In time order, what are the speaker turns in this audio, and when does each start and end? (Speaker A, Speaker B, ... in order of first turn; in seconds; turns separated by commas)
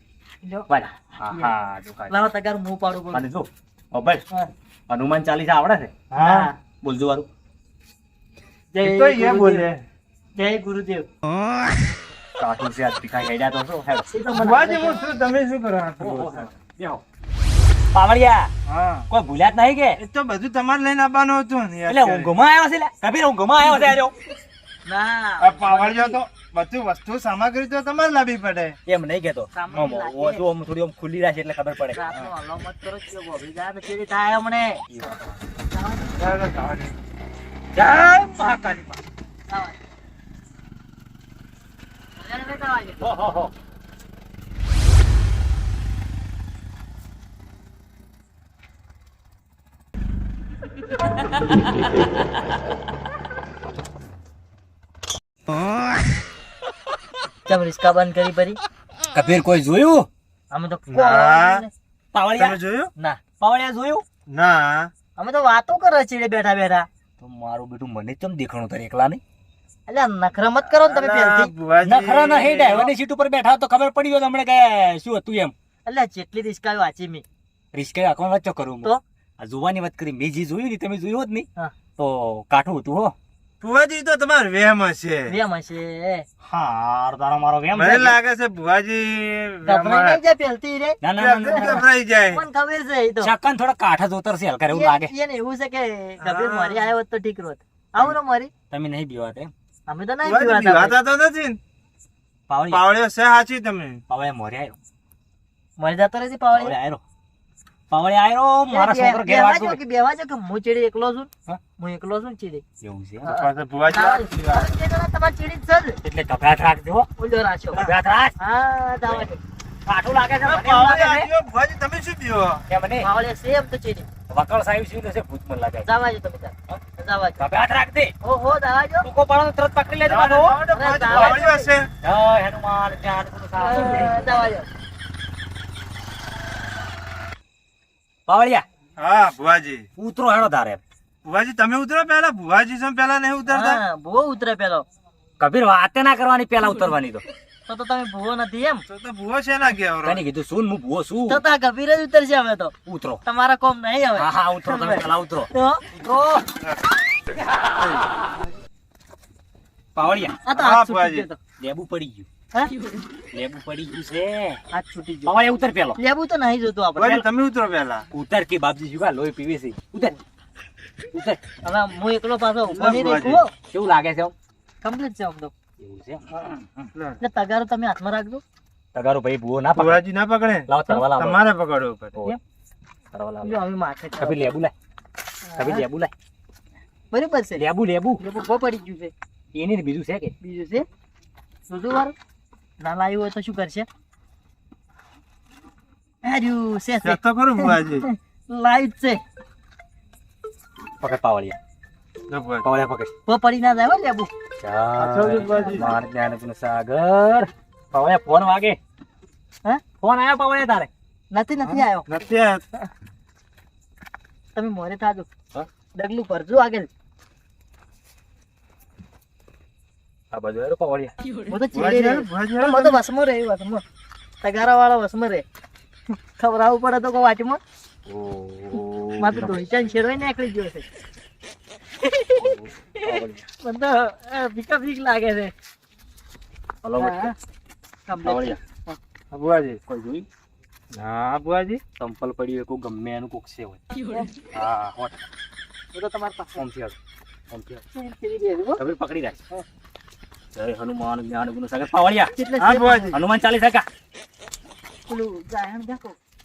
Speaker A: 0.4-0.7, Speaker B: 0.7-2.1, Speaker A: 1.3-1.5, Speaker A: 2.1-3.3, Speaker B: 3.1-4.2, Speaker B: 4.9-6.0, Speaker C: 6.1-6.5, Speaker A: 6.2-6.5, Speaker B: 6.8-7.3, Speaker A: 8.7-9.7, Speaker C: 8.8-9.8, Speaker A: 10.3-11.1, Speaker B: 12.4-14.1, Speaker A: 14.1-15.0, Speaker C: 14.3-16.5, Speaker B: 16.0-17.0, Speaker B: 17.9-18.5, Speaker C: 18.7-19.1, Speaker B: 19.1-20.0, Speaker C: 20.0-22.3, Speaker B: 21.9-24.1, Speaker A: 24.9-26.2, Speaker C: 25.4-28.8, Speaker B: 28.9-32.0, Speaker A: 29.5-30.4, Speaker A: 31.9-34.8, Speaker B: 34.9-35.3, Speaker A: 35.7-36.3, Speaker C: 36.2-37.0, Speaker B: 37.8-39.0, Speaker A: 39.5-39.8, Speaker A: 42.2-43.1, Speaker B: 43.0-43.5, Speaker A: 57.5-58.6, Speaker B: 59.1-60.1, Speaker A: 60.5-61.7, Speaker C: 60.9-61.6, Speaker B: 62.1-62.6, Speaker C: 62.4-62.9, Speaker B: 63.4-64.0, Speaker C: 64.3-64.9, Speaker A: 65.2-66.9, Speaker B: 67.2-69.2, Speaker A: 69.9-71.5, Speaker C: 70.7-72.9, Speaker B: 71.8-75.5, Speaker A: 75.8-77.2, Speaker B: 77.7-83.2, Speaker C: 83.6-85.3, Speaker A: 85.3-86.3, Speaker B: 86.4-88.2, Speaker C: 87.7-90.2, Speaker A: 89.7-93.3, Speaker B: 91.0-91.8, Speaker C: 91.2-92.4, Speaker B: 93.2-95.1, Speaker A: 94.7-98.5, Speaker C: 96.2-96.9, Speaker B: 98.7-99.5, Speaker A: 99.9-101.0, Speaker C: 100.2-101.6, Speaker B: 102.5-102.8, Speaker C: 102.7-104.0, Speaker B: 104.1-104.8, Speaker A: 105.8-106.7, Speaker B: 106.5-107.0, Speaker B: 107.9-109.8, Speaker A: 108.7-112.6, Speaker B: 112.8-113.3, Speaker A: 113.2-116.0, Speaker C: 113.3-114.7, Speaker B: 116.0-117.1, Speaker A: 117.2-117.8, Speaker B: 117.7-118.4, Speaker A: 118.4-119.4, Speaker B: 119.9-121.3, Speaker C: 120.4-122.7, Speaker A: 120.7-121.2, Speaker B: 122.7-123.1, Speaker A: 123.0-124.1, Speaker B: 124.3-125.9, Speaker A: 125.8-127.4, Speaker B: 127.4-128.1, Speaker A: 128.2-129.1, Speaker B: 129.0-131.5, Speaker C: 130.0-131.9, Speaker A: 130.7-131.7, Speaker B: 132.0-134.5, Speaker A: 133.6-134.7, Speaker B: 138.3-138.7, Speaker C: 139.0-139.9, Speaker B: 140.0-140.8, Speaker C: 141.2-143.8, Speaker A: 143.5-144.9, Speaker B: 145.4-147.2, Speaker A: 147.7-148.8, Speaker C: 148.9-150.2, Speaker B: 150.0-151.4, Speaker A: 151.3-152.7, Speaker B: 152.9-153.2, Speaker A: 153.2-155.8, Speaker B: 154.2-156.4, Speaker C: 157.8-158.1, Speaker B: 159.9-160.4, Speaker A: 160.5-161.4, Speaker C: 160.5-161.3, Speaker B: 161.6-162.3, Speaker B: 163.3-164.6, Speaker A: 164.7-165.3, Speaker B: 165.3-166.0, Speaker A: 166.0-167.2, Speaker C: 167.0-168.1, Speaker B: 168.1-170.2, Speaker B: 171.1-171.4, Speaker A: 171.6-173.5, Speaker C: 172.7-173.4, Speaker B: 173.7-174.3, Speaker A: 174.8-175.5, Speaker B: 175.8-176.9, Speaker C: 176.9-177.2, Speaker A: 177.2-178.4, Speaker B: 178.9-180.0, Speaker C: 179.8-182.2, Speaker B: 180.7-181.4, Speaker B: 183.1-183.6, Speaker A: 183.4-184.5, Speaker B: 184.2-184.7, Speaker A: 185.5-185.8, Speaker B: 185.6-186.1, Speaker A: 187.1-187.6, Speaker B: 187.6-188.2, Speaker A: 188.2-189.1, Speaker B: 189.5-190.3, Speaker A: 190.4-190.9, Speaker A: 191.7-192.2, Speaker A: 192.8-193.9, Speaker A: 196.2-199.2, Speaker C: 197.0-198.1, Speaker B: 201.0-201.6, Speaker C: 202.3-202.7, Speaker B: 202.6-203.1, Speaker A: 203.3-204.3, Speaker B: 204.6-208.8, Speaker C: 205.0-206.0, Speaker B: 210.0-210.9, Speaker A: 211.3-212.1, Speaker C: 211.6-212.6, Speaker A: 214.6-215.3, Speaker A: 215.9-216.9, Speaker B: 220.3-221.1, Speaker A: 221.5-223.8, Speaker C: 221.7-223.0, Speaker A: 224.4-225.4, Speaker A: 226.3-227.6, Speaker B: 228.1-229.6, Speaker A: 229.2-230.9, Speaker A: 232.0-235.5, Speaker B: 232.4-233.5, Speaker B: 236.8-237.3, Speaker A: 237.0-237.4, Speaker A: 238.1-239.0, Speaker B: 238.2-238.6, Speaker C: 239.3-239.8, Speaker B: 239.9-240.3, Speaker C: 240.9-241.8, Speaker B: 242.0-243.8, Speaker B: 244.5-245.3, Speaker A: 245.9-246.6, Speaker B: 246.6-247.0, Speaker B: 247.5-247.8, Speaker A: 247.9-248.8, Speaker B: 248.8-249.4, Speaker B: 250.6-252.3, Speaker A: 252.4-253.2, Speaker C: 252.6-253.2, Speaker B: 253.1-253.9, Speaker A: 255.1-256.2